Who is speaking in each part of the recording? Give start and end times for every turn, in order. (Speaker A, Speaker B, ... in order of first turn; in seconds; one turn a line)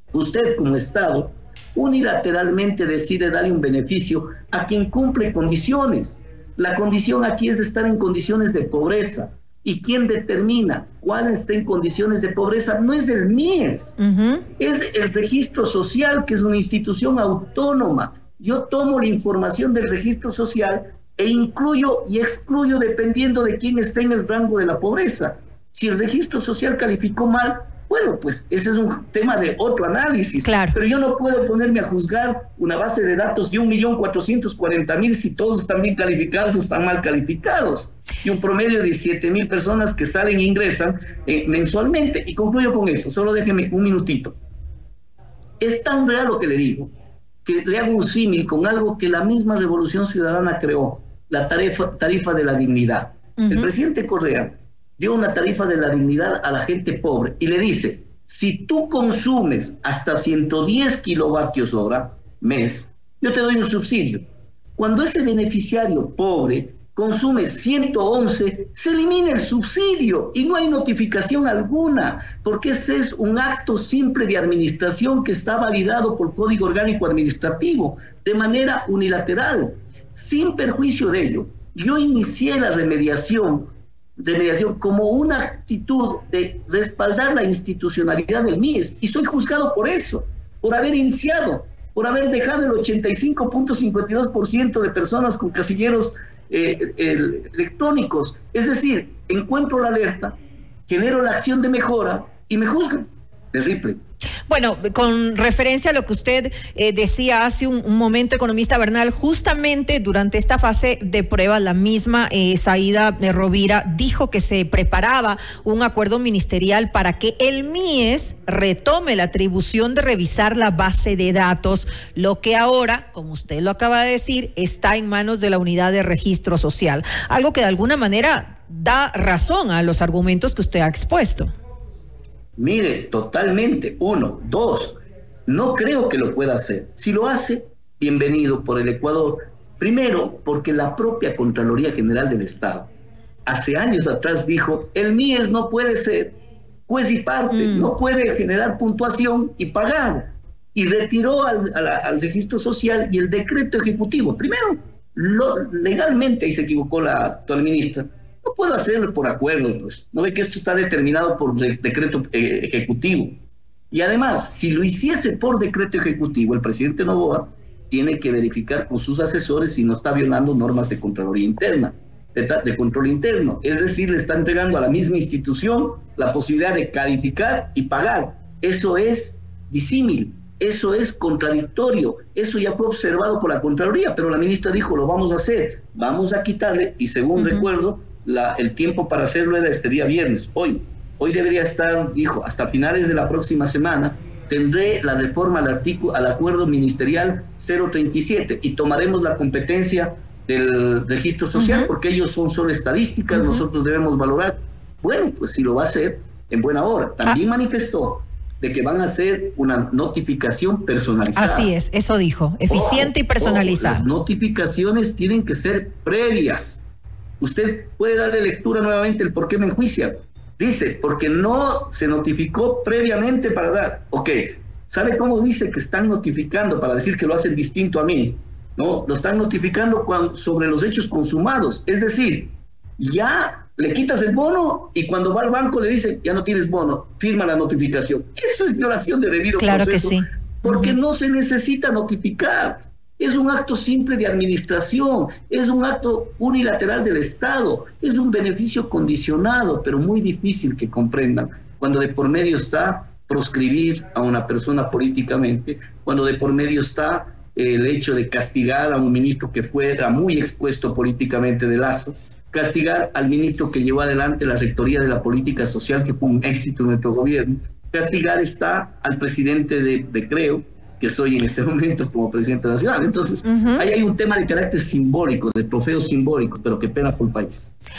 Speaker A: 0.1-14.0
Speaker B: 14.0-14.4
Speaker A: 14.6-44.4
Speaker B: 30.4-30.8
Speaker A: 45.6-46.9
Speaker A: 47.4-100.4
Speaker B: 53.4-53.7
Speaker A: 100.9-104.0
Speaker B: 104.5-131.5
Speaker A: 132.6-142.9
Speaker A: 143.4-211.7
Speaker B: 147.5-147.9
Speaker B: 187.3-187.7
Speaker B: 201.5-201.9
Speaker B: 203.3-203.6
Speaker B: 211.3-214.1
Speaker A: 212.7-216.9
Speaker A: 217.4-277.7
Speaker B: 239.5-241.0
Speaker B: 273.4-273.9